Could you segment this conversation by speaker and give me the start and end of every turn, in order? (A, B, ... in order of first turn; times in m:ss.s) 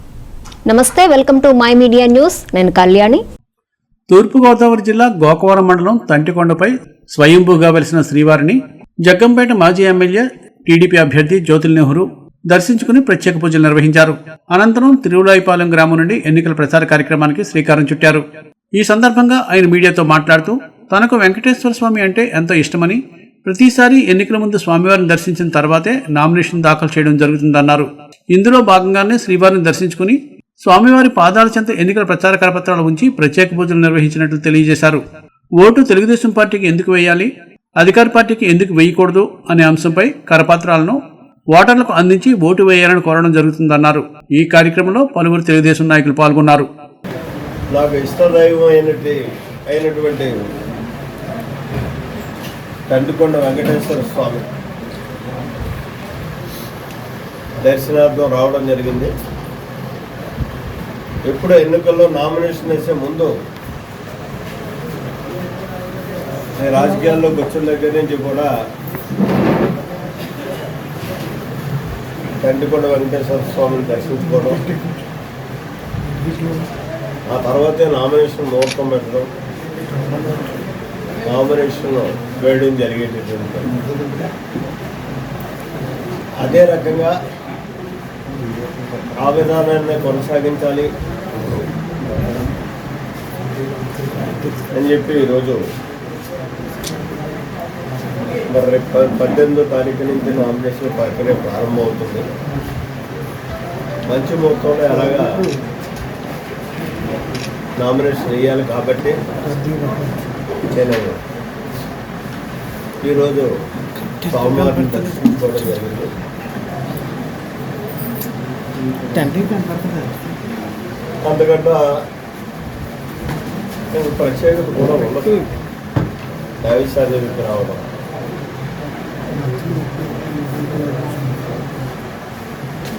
0:00.7-0:03.2 A
0:04.1-0:18.2 B
0:18.8-0:35.0 B
0:35.6-0:37.3 B
0:37.8-0:41.0 B
0:41.5-0:46.6 B
0:47.7-0:49.2 C
0:49.7-0:50.3 C
0:52.9-0:54.4 C
0:57.6-0:59.1 C
1:01.3-1:03.3 C
1:06.6-1:08.5 C
1:12.4-1:14.7 C
1:16.3-1:16.6 A
1:17.3-1:19.3 C
1:21.2-1:23.8 C
1:26.4-1:27.1 C
1:29.2-1:30.9 C
1:34.7-1:35.6 C
1:38.5-1:42.2 C
1:44.1-1:45.5 C
1:47.8-1:49.2 C
1:49.5-1:50.1 A
1:50.7-1:51.2 C
1:53.0-1:53.5 C
1:54.2-1:56.1 C
1:59.1-2:00.2 A
2:01.2-2:01.8 C
2:03.9-2:05.4 C
2:06.6-2:07.8 C
2:09.4-2:11.5 A